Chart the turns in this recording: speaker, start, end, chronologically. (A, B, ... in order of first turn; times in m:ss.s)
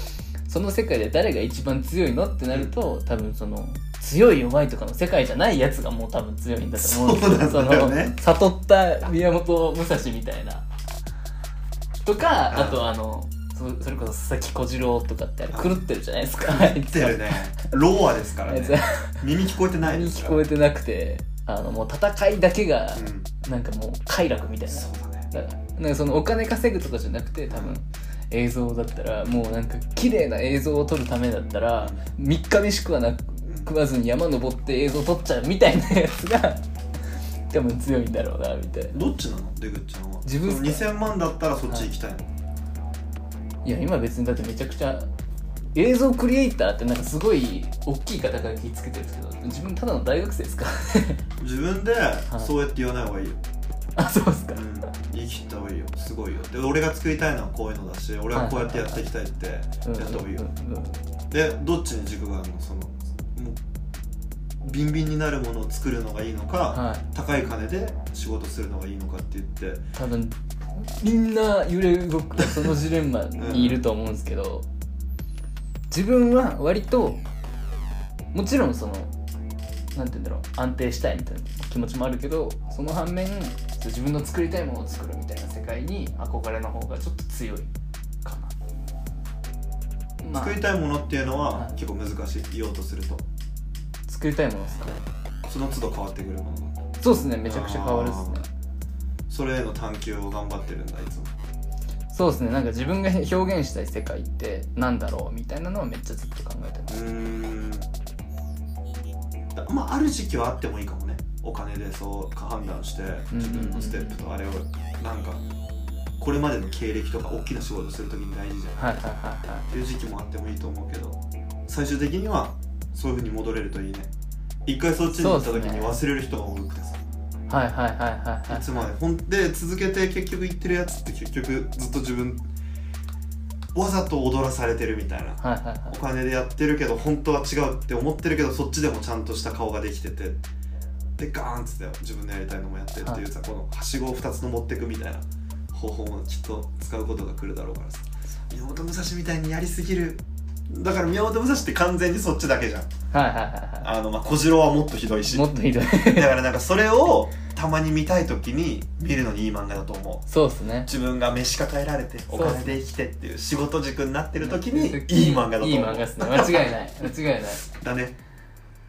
0:00.5-0:10.6 A
0:06.8-0:08.2 B
0:12.0-0:17.5 A
0:12.5-0:12.8 B
0:15.5-0:15.8 B
0:16.4-0:20.4 B
0:18.5-0:19.2 A
0:19.8-0:36.6 A
0:23.0-0:23.3 B
0:24.7-0:25.3 B
0:27.5-0:27.8 B
0:33.5-0:33.7 B
0:37.5-0:39.0 A
0:38.9-0:42.2 B
0:40.2-0:40.9 A
0:43.6-0:45.1 A
0:45.8-0:51.2 A
0:51.4-0:53.4 B
0:54.0-0:54.6 A
0:54.5-1:00.5 B
0:58.3-0:59.1 A
0:59.8-1:01.0 A
1:01.3-1:03.6 B
1:04.6-1:09.8 B
1:06.7-1:07.0 A
1:10.0-1:14.7 A
1:12.4-1:12.7 B
1:13.4-1:13.8 B
1:15.9-1:17.2 A
1:18.3-1:19.1 A
1:20.0-1:27.7 A
1:28.2-1:28.6 A
1:30.2-1:30.7 A
1:30.4-1:33.2 B
1:31.5-1:31.8 A
1:34.1-1:35.0 A
1:34.8-1:36.8 B
1:37.0-1:38.5 A
1:37.4-1:38.4 B
1:39.3-1:41.3 B
1:42.1-1:47.0 A
1:46.9-1:47.9 B
1:49.6-1:55.4 B
1:53.3-1:54.2 A
1:56.2-1:59.0 B
1:58.8-1:59.7 A
1:59.7-2:04.1 B
2:04.7-2:07.0 B
2:05.1-2:06.0 A
2:07.5-2:08.9 A
2:08.5-2:12.4 B
2:13.7-2:20.4 B
2:15.4-2:16.0 A
2:21.2-2:32.9 B
2:33.1-2:33.9 A
2:33.8-2:40.3 B
2:35.3-2:36.4 A
2:40.3-2:40.9 A
2:40.9-2:46.7 B
2:42.3-2:42.8 A
2:44.4-2:47.7 A
2:47.7-2:48.2 B